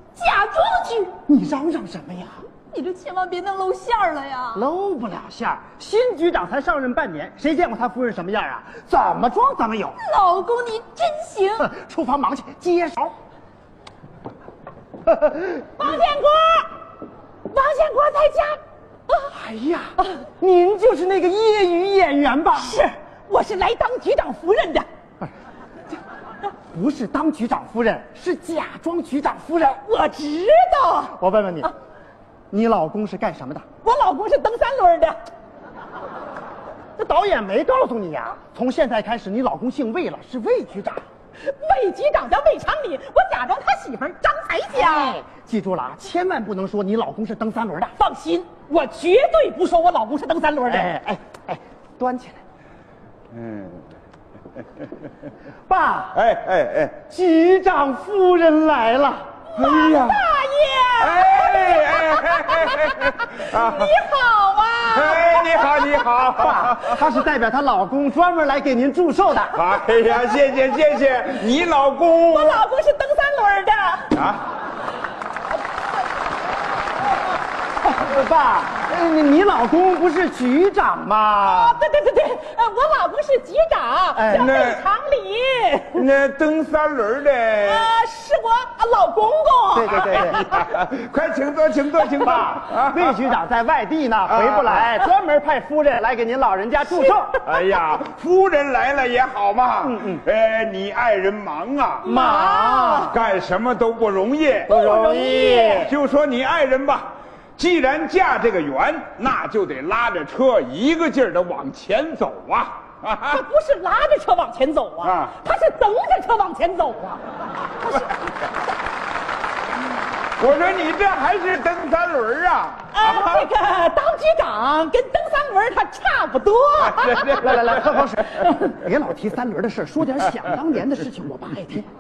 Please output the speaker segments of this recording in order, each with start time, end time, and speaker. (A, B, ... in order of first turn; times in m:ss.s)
0:00.2-0:01.1 A
0:01.3-0:02.4 B
0:02.7-0:04.6 A
0:04.5-0:10.0 B
0:10.0-0:11.7 A
0:11.6-0:13.1 B
0:15.1-0:15.6 B
0:15.8-0:16.7 A
0:17.4-0:19.3 A
0:19.3-0:22.8 B
0:22.6-0:24.9 A
0:26.7-0:29.8 B
0:29.8-0:31.7 A
0:31.1-0:31.7 B
0:32.5-0:33.6 B
0:33.8-0:35.2 A
0:37.0-0:41.0 B
0:41.4-0:45.2 A
0:44.7-0:48.0 B
0:48.0-0:50.9 A
0:50.7-0:52.4 B
0:53.3-0:53.9 C
0:55.7-0:56.2 B
0:56.1-0:57.0 C
0:57.1-0:59.3 B
0:59.5-1:06.0 A
0:59.6-1:00.3 C
1:01.0-1:04.0 C
1:04.9-1:07.0 C
1:06.3-1:09.6 B
1:09.5-1:12.6 C
1:12.3-1:14.1 A
1:14.1-1:14.4 C
1:17.8-1:21.8 B
1:21.4-1:26.0 A
1:24.2-1:24.5 B
1:24.3-1:24.9 C
1:25.9-1:27.9 C
1:27.6-1:30.6 A
1:29.7-1:30.4 B
1:29.9-1:33.2 C
1:32.8-1:37.4 B
1:34.2-1:34.9 C
1:36.9-1:37.2 A
1:37.4-1:42.2 C
1:39.8-1:40.2 B
1:42.0-1:43.2 A
1:42.0-1:43.1 B
1:43.1-1:53.4 C
1:44.7-1:45.7 B
1:44.7-1:45.9 A
1:53.3-1:57.2 A
1:55.0-1:55.3 C
2:00.4-2:03.5 C
2:02.9-2:07.8 A
2:06.9-2:07.4 C
2:07.3-2:11.8 B
2:08.4-2:08.7 A